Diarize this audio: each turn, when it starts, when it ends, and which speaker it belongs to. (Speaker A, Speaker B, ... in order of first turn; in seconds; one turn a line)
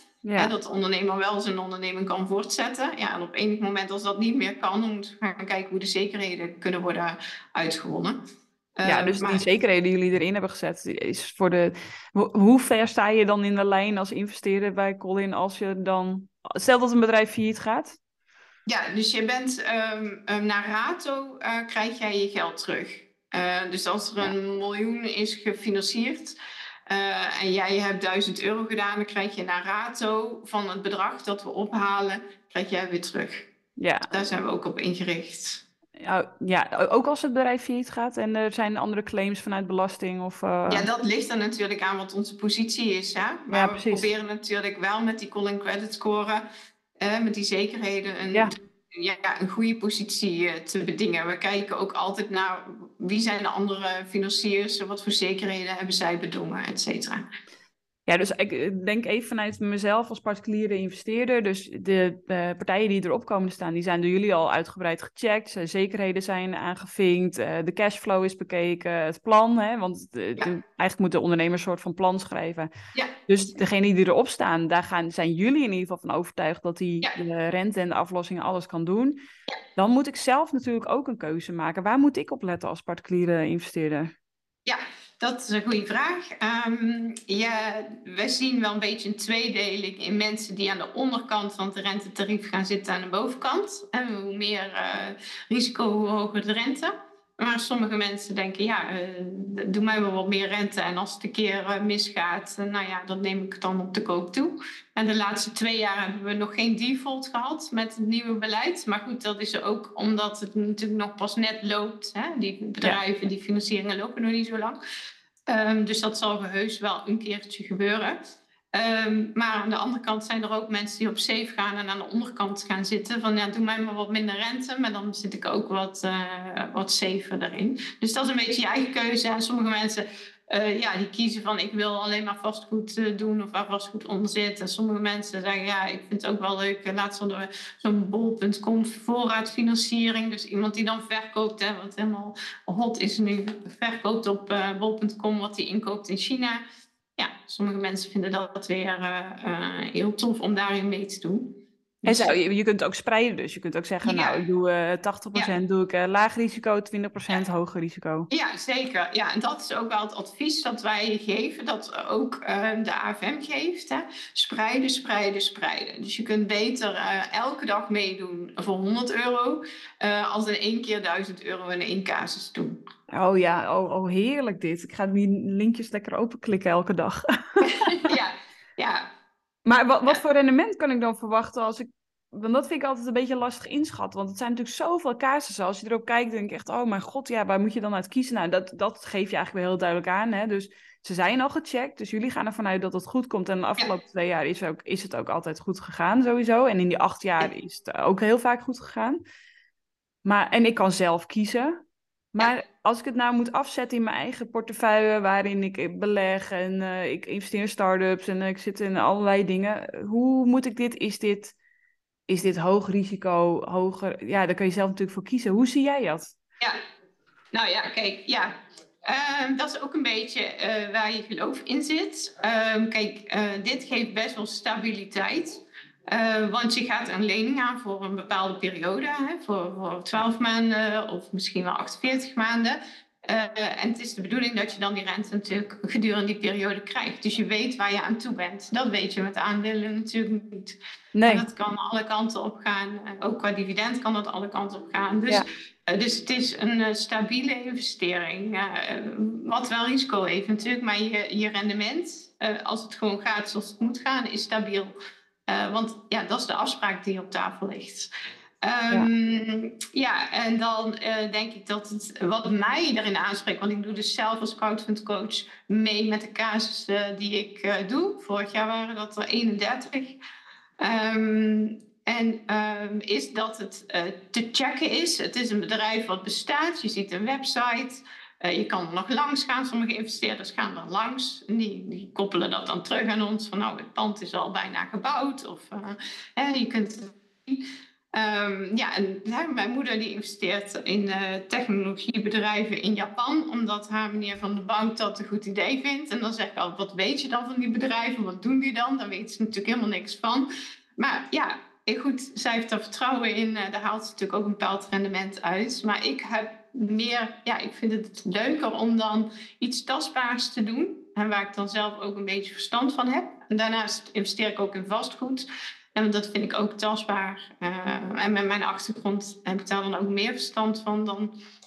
Speaker A: 0.2-0.5
Speaker B: 0.4-8.2
Speaker B: 8.8-9.4
Speaker A: 8.8-18.0
Speaker B: 18.6-26.4
Speaker B: 26.9-33.5
Speaker A: 33.8-34.1
Speaker B: 34.1-35.6
Speaker A: 36.0-40.9
Speaker B: 40.7-46.5
Speaker A: 43.5-44.1
Speaker B: 47.0-57.2
Speaker A: 58.1-72.7
Speaker A: 73.3-79.2
Speaker A: 79.8-84.1
Speaker B: 84.7-114.8
Speaker B: 115.5-118.2
Speaker B: 118.7-146.6
Speaker B: 147.2-152.3
Speaker A: 152.0-158.3
Speaker B: 154.0-154.4
Speaker B: 158.3-172.8
Speaker A: 173.1-178.1
Speaker B: 177.6-179.1
Speaker A: 179.6-199.2
Speaker A: 200.2-201.8
Speaker A: 202.3-211.5
Speaker A: 212.3-216.3
Speaker B: 217.5-254.9
Speaker A: 241.1-241.5
Speaker B: 255.5-258.1
Speaker B: 258.6-270.2
Speaker B: 270.8-321.3